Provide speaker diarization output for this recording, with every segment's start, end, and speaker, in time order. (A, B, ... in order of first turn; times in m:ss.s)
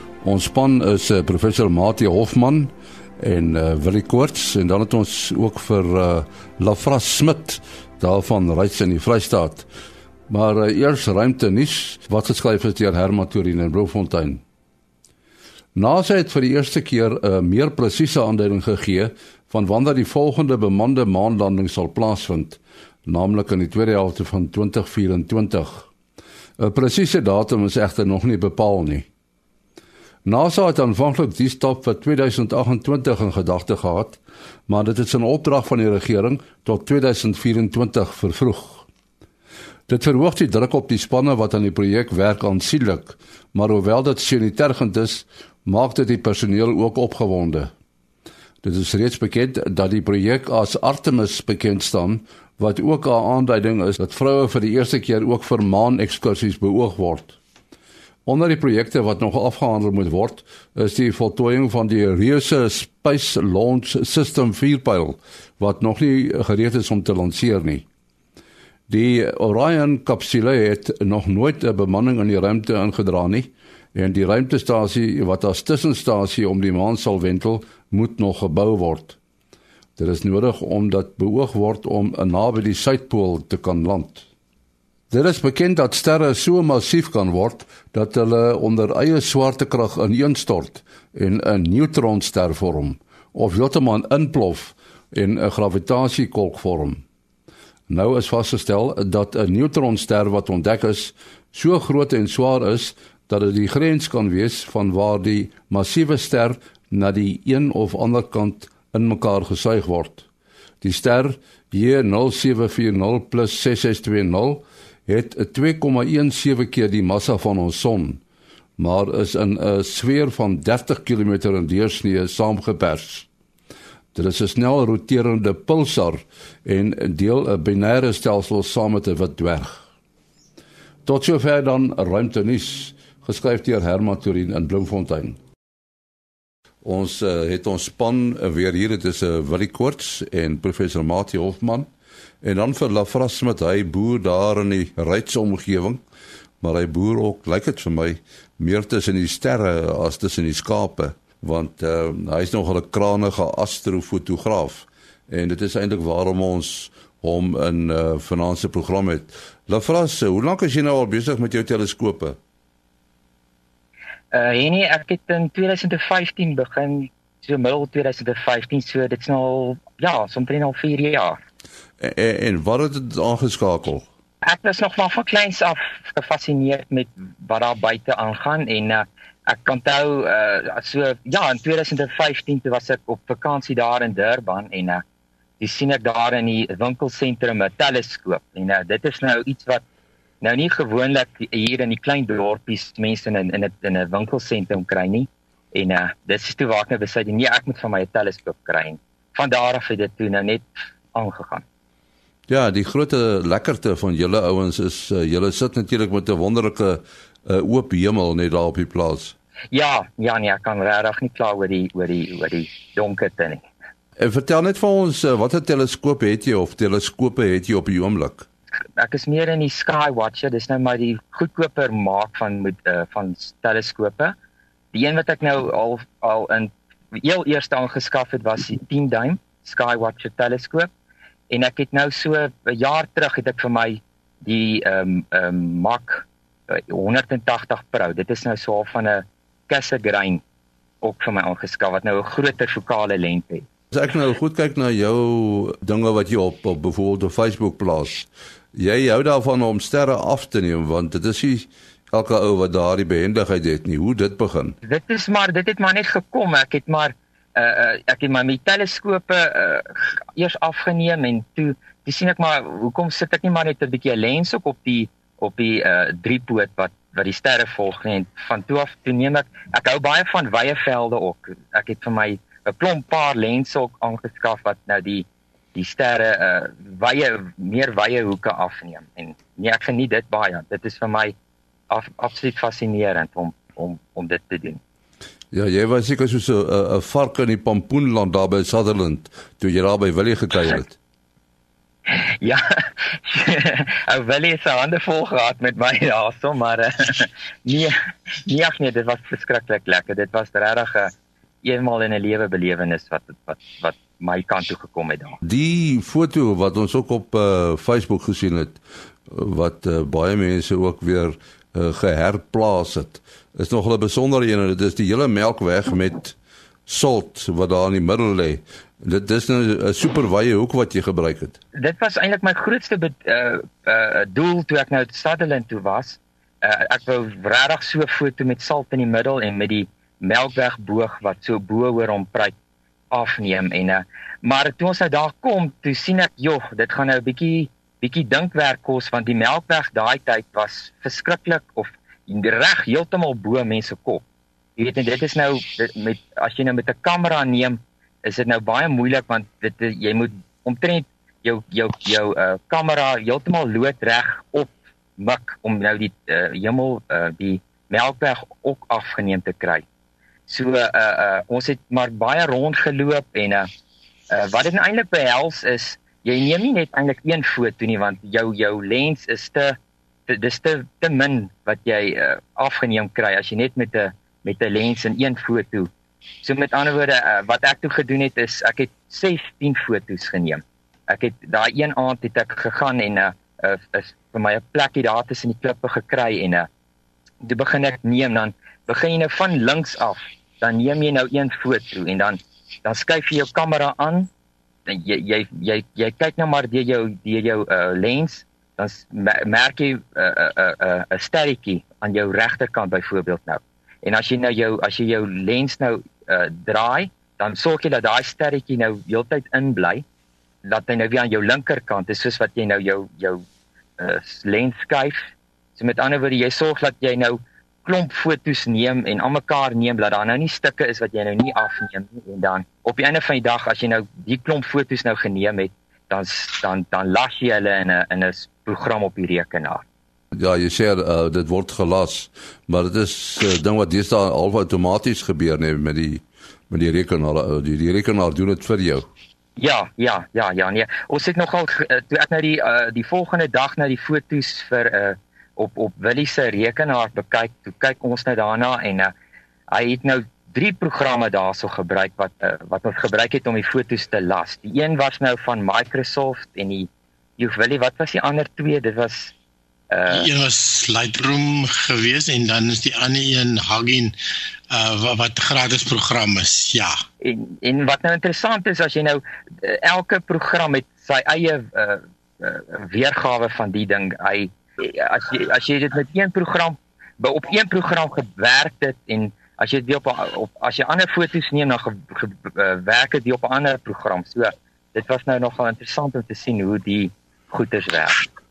0:00.2-0:09.6 A
0:10.3-0:14.4 A
0:15.7-0:25.9 A
0:26.6-0:29.1 A
0:30.2-0:38.8 A
0:39.9-0:47.7 A
0:48.6-0:57.4 A
0:58.2-1:07.8 A
1:08.9-1:19.2 A
1:20.0-1:24.2 A
1:25.1-1:37.0 A
1:37.9-1:50.2 A
1:50.8-1:58.2 A
1:58.8-2:03.3 A
2:04.1-2:09.8 A
2:11.0-2:15.4 A
2:16.8-2:21.9 A
2:22.4-2:26.0 A
2:26.6-2:42.4 A
2:44.3-2:51.4 B
2:52.0-2:54.0 A
2:54.4-3:05.0 B
3:05.6-3:09.8 B
3:10.4-3:21.6 B
3:22.5-3:29.3 A
3:29.7-3:33.6 B
3:34.2-3:38.4 A
3:39.0-3:44.4 B
3:44.9-3:50.9 B
3:51.5-4:00.4 B
4:01.0-4:03.6 B
4:03.9-4:14.8 A
4:14.8-4:41.3 B
4:41.9-4:44.8 B
4:45.5-4:51.0 A
4:52.1-5:01.1 B
5:01.6-5:05.4 B
5:05.4-5:16.4 A
5:16.9-5:21.6 A
5:21.7-5:32.5 B
5:33.1-5:44.2 B
5:44.8-5:59.8 B
6:00.5-6:03.7 B
6:04.3-6:09.8 B
6:10.3-6:15.9 B
6:16.4-6:26.7 B
6:27.4-6:34.3 B
6:34.9-6:50.0 B
6:50.6-6:53.4 B
6:54.0-7:09.8 B
7:10.4-7:19.0 A
7:19.6-7:29.1 B
7:29.7-7:39.3 B
7:39.9-7:40.2 B
7:40.1-7:44.1 C
7:44.7-7:46.9 C
7:47.2-8:08.2 B